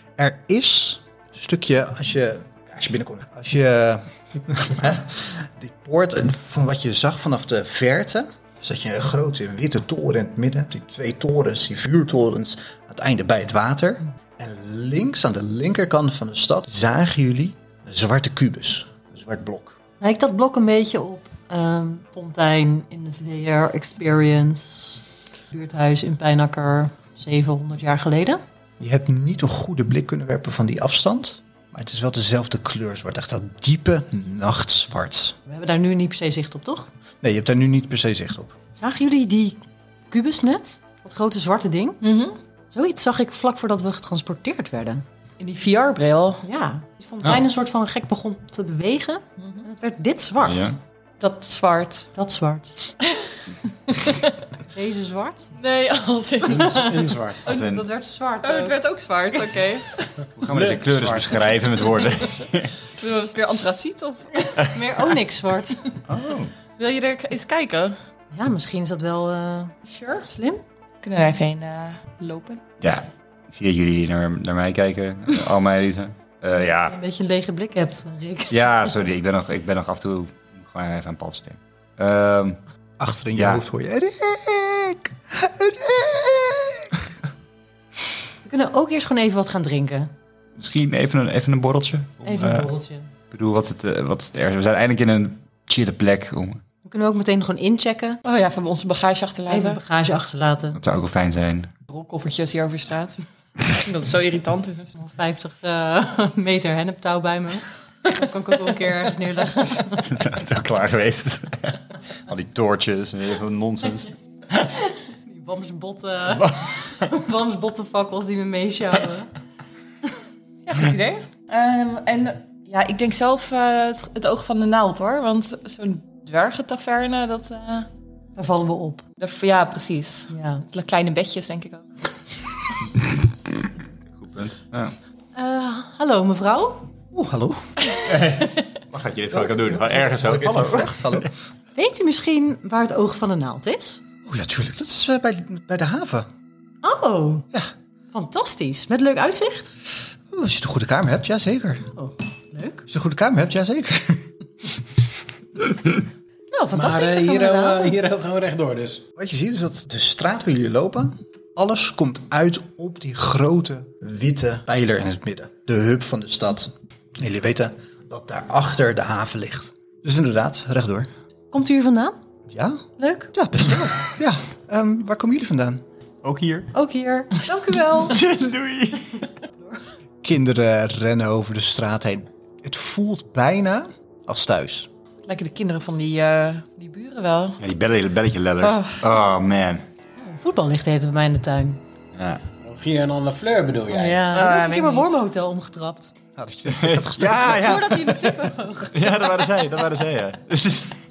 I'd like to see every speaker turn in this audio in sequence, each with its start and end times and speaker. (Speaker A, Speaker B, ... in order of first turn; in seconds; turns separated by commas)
Speaker A: 0.2-19.8, Speaker B: 20.0-28.4, Speaker A: 28.8-35.4, Speaker B: 35.5-36.9, Speaker A: 37.2-38.5, Speaker B: 38.8-42.0, Speaker C: 42.0-42.4, Speaker B: 42.7-45.0, Speaker C: 45.4-46.4, Speaker B: 46.4-50.7, Speaker C: 49.4-49.6, Speaker D: 50.4-50.8, Speaker C: 51.2-52.1, Speaker B: 52.1-52.8, Speaker C: 53.1-53.4, Speaker C: 53.9-54.3, Speaker B: 54.7-55.5, Speaker C: 55.6-57.0, Speaker B: 56.5-56.9, Speaker E: 56.5-57.5, Speaker B: 57.4-58.8, Speaker D: 57.5-57.9, Speaker C: 58.4-60.1, Speaker D: 60.4-62.8, Speaker E: 60.5-61.6, Speaker C: 62.9-64.3, Speaker B: 64.6-65.9, Speaker D: 66.1-66.5, Speaker C: 66.8-68.0, Speaker B: 68.3-70.6, Speaker C: 69.9-70.3, Speaker C: 71.0-72.6, Speaker D: 72.8-77.0, Speaker B: 76.9-78.7, Speaker D: 78.5-82.6, Speaker A: 83.0-87.0, Speaker D: 83.3-83.6, Speaker B: 88.5-90.1, Speaker D: 90.6-92.7, Speaker B: 92.2-93.1, Speaker D: 93.3-96.6, Speaker B: 96.8-98.2, Speaker C: 98.2-99.8, Speaker B: 99.5-100.8, Speaker D: 100.8-101.7, Speaker C: 101.9-104.9, Speaker B: 105.0-110.0, Speaker D: 109.8-114.1, Speaker B: 114.9-119.3, Speaker C: 120.7-127.9, Speaker B: 128.4-129.0, Speaker C: 129.2-131.9, Speaker B: 130.3-130.7, Speaker D: 134.2-134.9, Speaker B: 135.3-136.9, Speaker A: 137.1-137.7, Speaker D: 138.1-141.3, Speaker A: 139.3-141.3, Speaker B: 141.8-144.0, Speaker A: 144.2-146.3, Speaker B: 146.8-147.5, Speaker B: 148.1-149.8, Speaker A: 150.3-151.9, Speaker B: 152.0-152.8, Speaker A: 152.9-154.3, Speaker B: 156.5-158.0, Speaker E: 156.7-159.1, Speaker A: 159.2-171.1, Speaker B: 171.5-172.2, Speaker A: 172.5-175.8, Speaker B: 173.0-173.3, Speaker D: 176.2-176.7, Speaker B: 176.7-178.2, Speaker D: 178.1-179.3, Speaker A: 180.2-184.9, Speaker C: 185.2-187.6, Speaker D: 187.6-189.8, Speaker C: 188.6-189.0, Speaker B: 190.2-191.8, Speaker D: 192.2-192.4, Speaker E: 192.6-194.3, Speaker B: 193.9-196.1, Speaker C: 194.3-195.2, Speaker A: 196.4-197.9, Speaker D: 196.7-198.4, Speaker B: 197.5-199.2, Speaker D: 198.9-201.0